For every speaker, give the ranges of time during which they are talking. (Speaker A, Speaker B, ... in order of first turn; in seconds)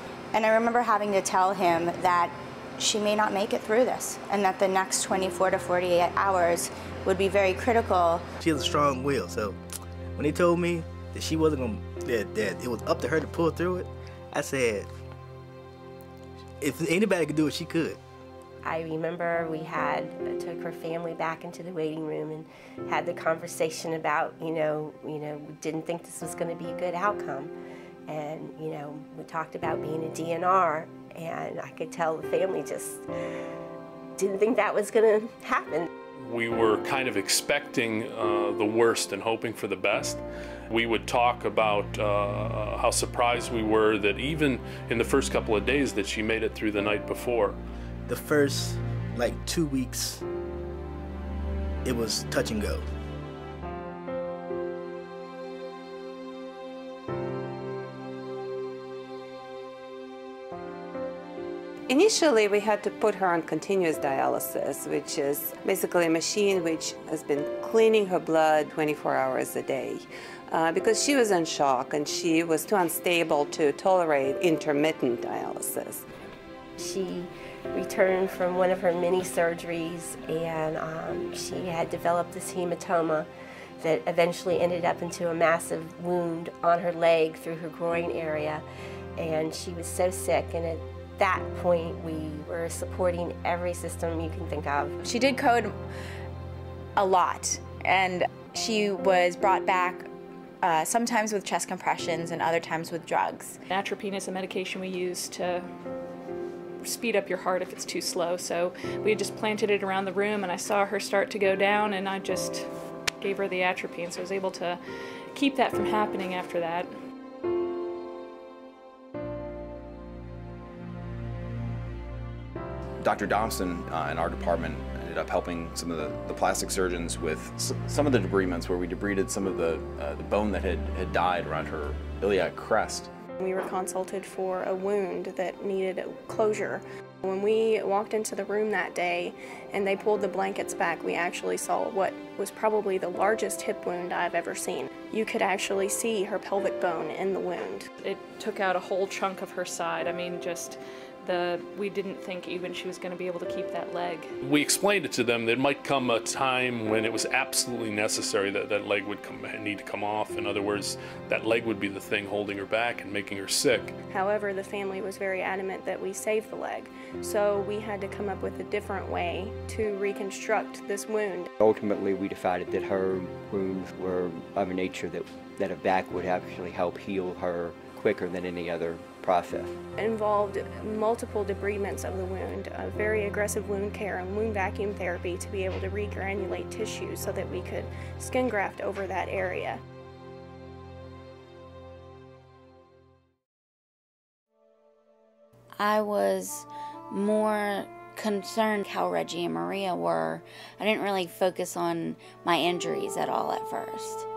Speaker A: 0.3-8.2
Speaker B: 8.4-9.6, 10.2-14.9, 16.6-18.0, 48.1-50.2, 51.9-52.9
Speaker C: 18.6-27.5, 28.1-33.1, 34.2-35.9, 76.8-83.3, 83.8-88.6, 89.2-95.0
Speaker D: 36.2-47.6, 154.4-163.9
Speaker E: 61.9-76.0
Speaker F: 95.0-95.7, 97.0-100.1, 100.6-103.6
Speaker G: 103.7-105.7, 106.8-112.7, 113.2-114.8, 115.3-116.9, 148.0-154.3
Speaker H: 123.0-133.1
Speaker I: 133.4-147.9, 164.1-171.5, 180.0-189.8
Speaker J: 171.6-179.7
Speaker K: 195.8-204.3